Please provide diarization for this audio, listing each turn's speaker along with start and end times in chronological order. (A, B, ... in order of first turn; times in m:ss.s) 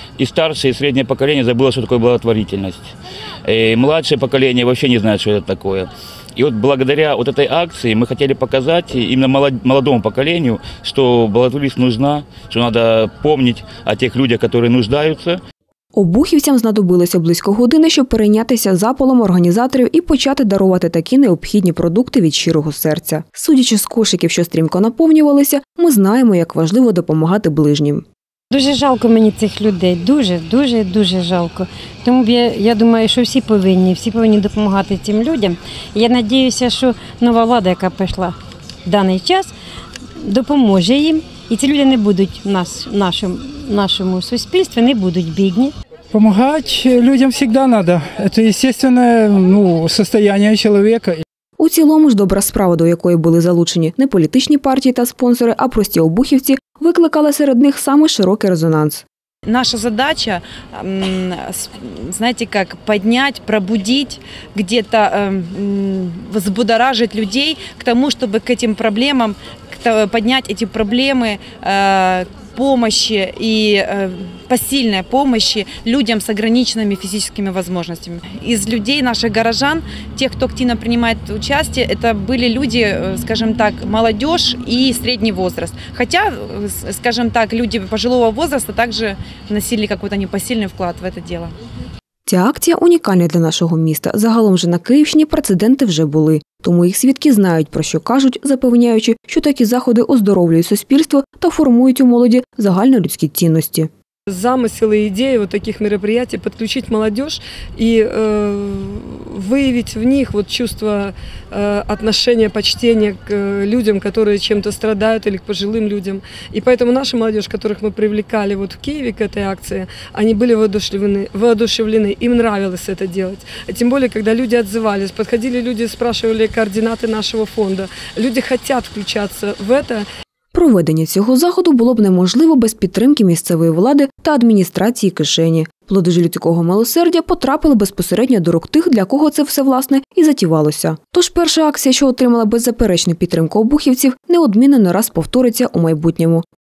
0:00.2-0:02.9 A
0:03.4-0:15.4 A
0:16.0-0:28.0 B
0:28.5-0:39.5 C
0:40.2-0:45.7 C
0:46.1-0:51.2 D
0:51.6-0:59.0 B
0:59.5-1:31.5 E
1:32.3-1:43.9 B
1:44.3-2:10.0 F
2:10.5-2:26.4 B